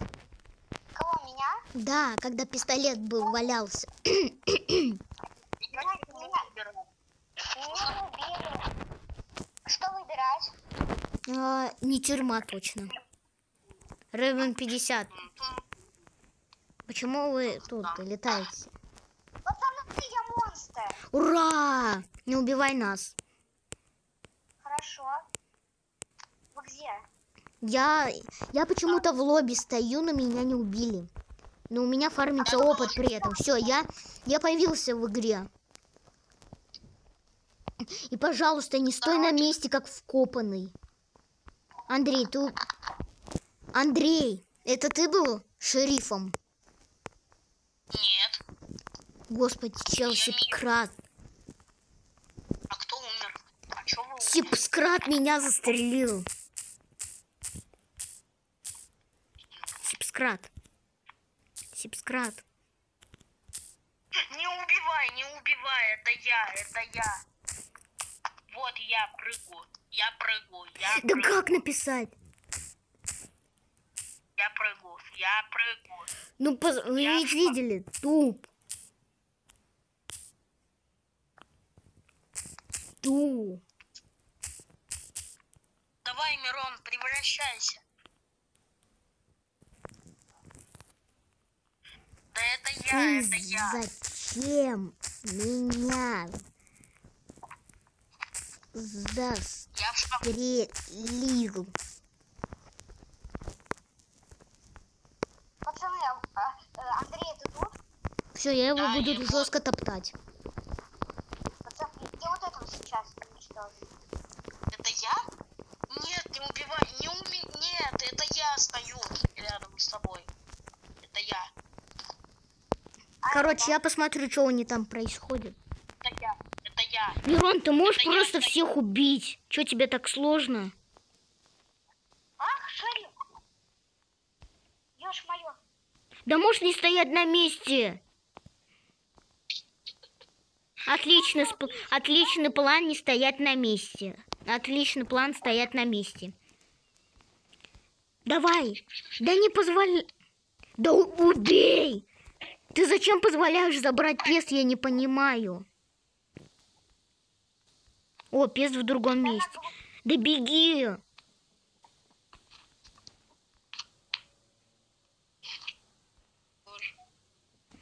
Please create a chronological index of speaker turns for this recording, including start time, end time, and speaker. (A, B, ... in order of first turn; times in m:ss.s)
0:01.0-0:01.6 A
0:01.8-0:05.0 B
0:05.6-0:06.8 C
0:05.7-0:06.5 A
0:07.5-0:08.6 A
0:07.7-0:08.0 C
0:09.6-0:10.5 A
0:11.2-0:12.9 B
0:14.1-0:15.1 B
0:15.1-0:15.7 C
0:16.9-0:18.7 B
0:17.6-0:18.0 C
0:19.4-0:21.0 A
0:21.1-0:23.1 B
0:24.6-0:25.2 A
0:26.5-0:27.0 A
0:27.6-0:31.1 B
0:31.7-0:35.5 B
0:32.4-0:33.0 C
0:32.6-0:33.6 A
0:37.9-0:40.7 B
0:39.0-0:39.6 C
0:41.9-0:42.6 B
0:43.7-0:46.4 B
0:47.9-0:48.4 C
0:49.3-0:51.0 B
0:50.0-0:50.6 C
0:52.7-0:54.6 C
0:54.2-0:56.3 B
0:59.8-1:00.5 B
1:01.7-1:02.4 B
1:04.3-1:07.2 C
1:08.5-1:11.5 C
1:11.0-1:12.1 B
1:14.4-1:16.1 C
1:16.4-1:18.4 B
1:16.9-1:17.6 C
1:23.0-1:23.6 B
1:26.0-1:27.8 C
1:32.3-1:33.8 C
1:32.9-1:36.4 B
1:38.7-1:39.7 B
1:39.7-1:40.2 C
1:40.2-1:41.7 B
1:45.6-1:47.8 A
1:48.3-1:50.2 B
1:48.7-1:49.5 C
1:51.6-1:53.9 A
1:54.7-1:55.2 C
1:55.9-2:00.3 C
2:01.0-2:01.5 C
2:03.2-2:03.8 A
2:03.3-2:05.6 B
2:06.0-2:07.2 C
2:07.2-2:10.7 B
2:07.8-2:08.6 C
2:12.4-2:13.1 A
2:15.0-2:15.6 A
2:16.2-2:18.0 B
2:20.8-2:26.3 B
2:21.1-2:22.4 A
2:28.2-2:30.1 B
2:29.1-2:29.4 C
2:30.8-2:32.0 B
2:32.7-2:35.6 B
2:38.3-2:41.0 B
2:39.2-2:39.7 A
2:46.7-2:46.9 C